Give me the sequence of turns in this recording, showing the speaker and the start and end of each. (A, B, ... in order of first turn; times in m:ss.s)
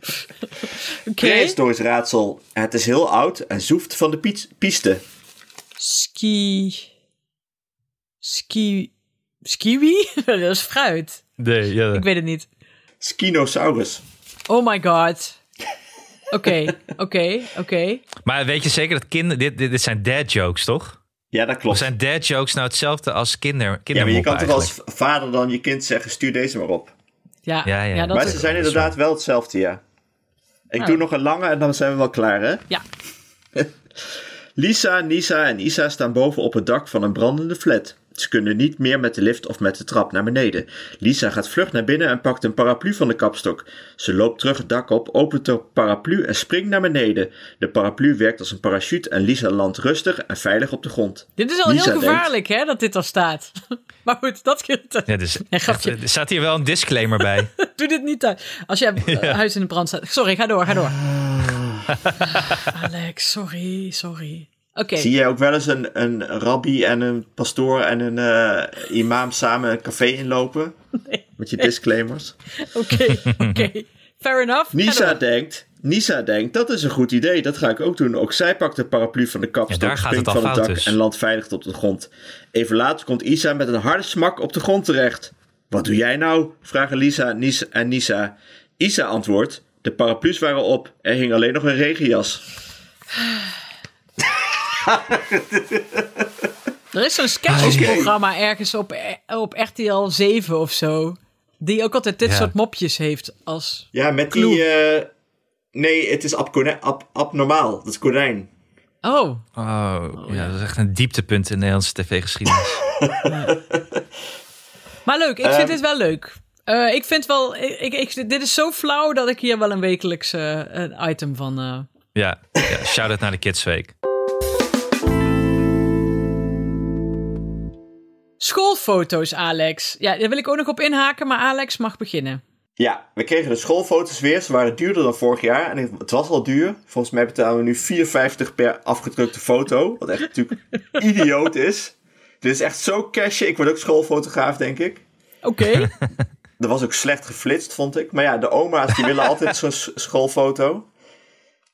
0:01.1-0:01.6 A
0:01.2-0:05.0 B
0:05.8-0:06.9 A
0:08.2-0:08.9 A
0:09.4-0:11.2 A
0:11.4-0:12.0 C
0:11.9-0:12.5 A
0:13.0-0:14.0 B
0:14.5-0:15.4 A
0:16.3-0:18.1 A
0:18.2-0:21.0 C
0:21.3-0:21.9 B
0:21.7-0:24.7 C
0:23.9-0:26.9 B
0:27.5-0:28.4 A
0:27.6-0:28.9 C
0:28.1-0:29.8 B
0:30.7-0:32.7 B
0:34.6-0:52.3 B
0:51.4-0:56.0 A
0:55.1-0:57.5 C
0:57.4-1:01.0 A
0:59.0-0:59.4 C
1:00.9-1:01.9 B
1:01.9-1:02.6 C
1:02.2-1:05.1 A
1:05.0-1:10.8 B
1:11.0-1:11.7 A
1:11.4-1:12.4 B
1:12.6-1:15.2 A
1:13.2-1:13.6 C
1:14.7-1:32.4 B
1:19.7-1:21.0 C
1:34.2-1:36.5 B
1:36.9-1:44.6 A
1:37.5-1:37.9 C
1:37.6-1:38.2 B
1:42.2-1:42.5 C
1:43.9-1:45.1 B
1:45.7-1:48.5 B
1:49.0-1:49.4 A
1:49.6-1:52.8 C
1:50.2-1:50.6 A
1:52.9-1:54.0 B
1:53.3-1:53.6 A
1:55.1-2:01.9 A
1:55.4-1:55.8 B
2:02.2-2:04.0 C
2:08.4-2:12.4 A
2:12.8-2:25.0 B
2:25.4-2:25.9 A
2:26.6-2:30.9 B